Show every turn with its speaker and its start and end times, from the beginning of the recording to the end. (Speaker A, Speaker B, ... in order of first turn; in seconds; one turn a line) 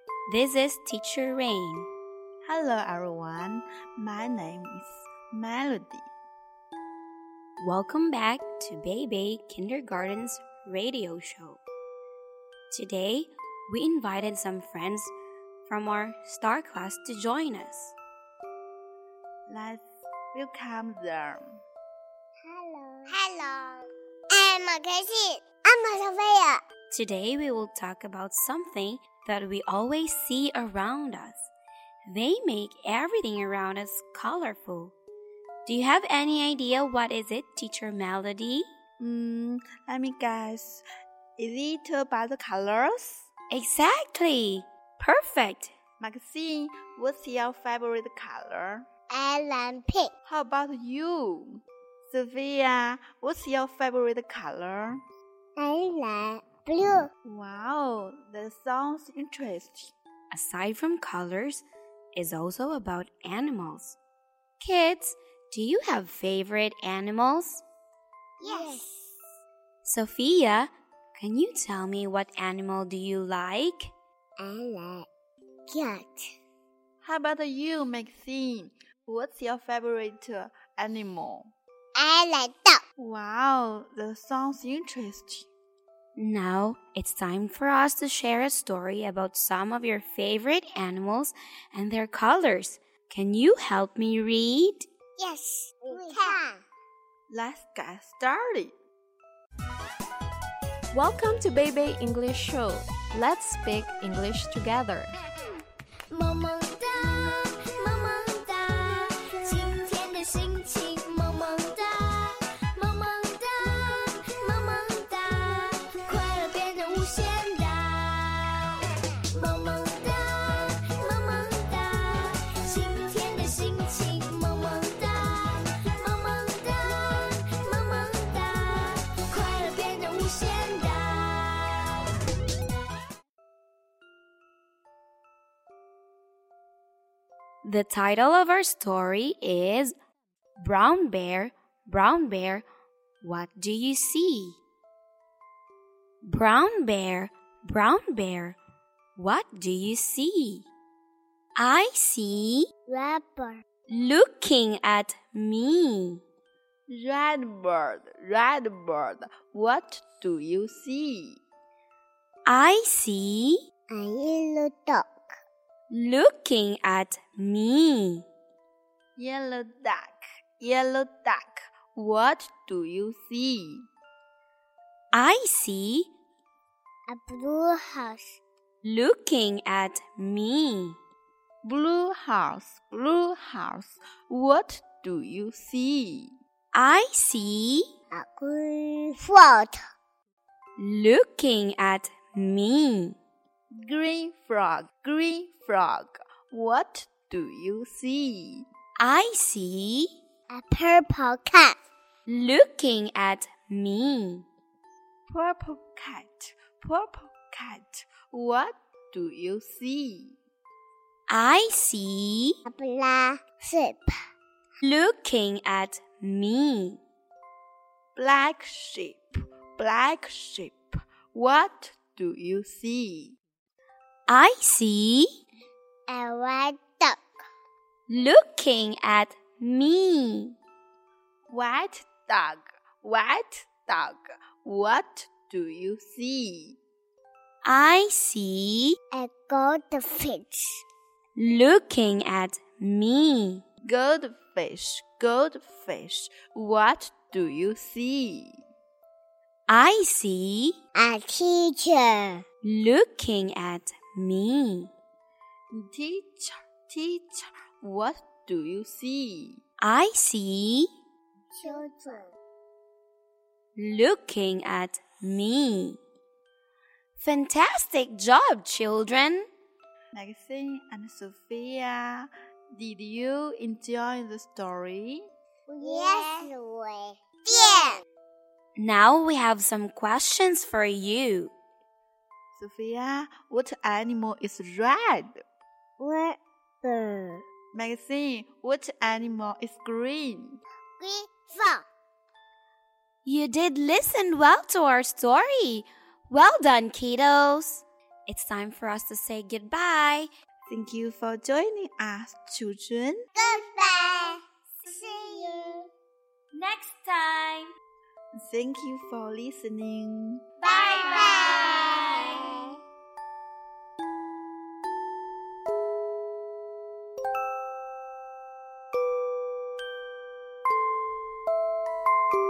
Speaker A: 0.3-1.9
Speaker B: 2.5-6.1
Speaker A: 7.6-11.6
Speaker A: 12.7-15.1
Speaker A: 15.6-17.9
Speaker B: 19.5-21.6
Speaker C: 22.5-26.6
Speaker A: 26.9-31.5
Speaker A: 32.1-35.0
Speaker A: 35.6-38.6
Speaker B: 39.0-40.8
Speaker B: 41.4-43.3
Speaker A: 43.5-45.7
Speaker B: 46.0-48.9
Speaker C: 49.1-50.1
Speaker B: 50.2-55.0
Speaker C: 55.6-57.1
Speaker B: 57.2-59.9
Speaker A: 60.3-64.0
Speaker A: 64.6-67.6
Speaker C: 68.4-69.1
Speaker A: 69.8-73.9
Speaker C: 74.4-75.1
Speaker C: 75.7-76.2
Speaker B: 77.0-81.5
Speaker C: 82.0-82.8
Speaker B: 83.0-85.5
Speaker A: 86.2-94.8
Speaker C: 95.2-96.6
Speaker B: 97.3-98.7
Speaker D: 100.9-105.0
Speaker E: 106.1-132.1
Speaker A: 137.6-139.9
Speaker A: 140.6-142.6
Speaker A: 143.2-144.6
Speaker A: 146.2-148.6
Speaker A: 149.2-150.7
Speaker A: 151.6-152.7
Speaker C: 152.9-153.6
Speaker A: 153.9-156.2
Speaker B: 156.9-161.4
Speaker A: 162.5-163.6
Speaker C: 163.9-165.3
Speaker A: 165.9-168.2
Speaker B: 169.2-173.8
Speaker A: 175.1-176.1
Speaker C: 177.1-178.4
Speaker A: 178.8-181.0
Speaker B: 181.6-186.3
Speaker A: 186.7-187.8
Speaker C: 188.1-189.8
Speaker A: 190.8-193.2
Speaker B: 193.8-198.6
Speaker A: 199.0-200.1
Speaker C: 200.5-201.8
Speaker A: 202.3-204.4
Speaker B: 205.3-210.4
Speaker A: 211.3-212.5
Speaker C: 212.7-214.1
Speaker A: 214.8-217.0
Speaker B: 218.2-223.3
Speaker A: 224.3-225.3
Speaker C: 226.1-227.2
Speaker A: 228.1-230.6
Speaker B: 231.5-236.8
Speaker A: 237.6-238.9
Speaker C: 239.1-240.8
Speaker A: 241.3-243.6
Speaker B: 243.8-248.6
Speaker A: 249.7-250.8
Speaker C: 251.0-252.4
Speaker A: 252.6-254.9
Speaker B: 255.7-259.6
Speaker A: 259.8-260.9
Speaker C: 261.5-262.3
Speaker A: 263.8-266.0
Speaker A: 267.2-269.5
Speaker B: 270.1-275.2
Speaker C: 275.7-278.0
Speaker A: 278.8-281.5
Speaker B: 282.5-285.3
Speaker C: 286.0-287.4
Speaker B: 287.7-290.6
Speaker C: 291.0-291.8
Speaker A: 293.2-300.3
Speaker B: 300.7-303.2
Speaker C: 303.4-305.8
Speaker A: 306.5-307.7
Speaker B: 308.4-310.4
Speaker A: 310.6-312.6
Speaker C: 310.9-312.0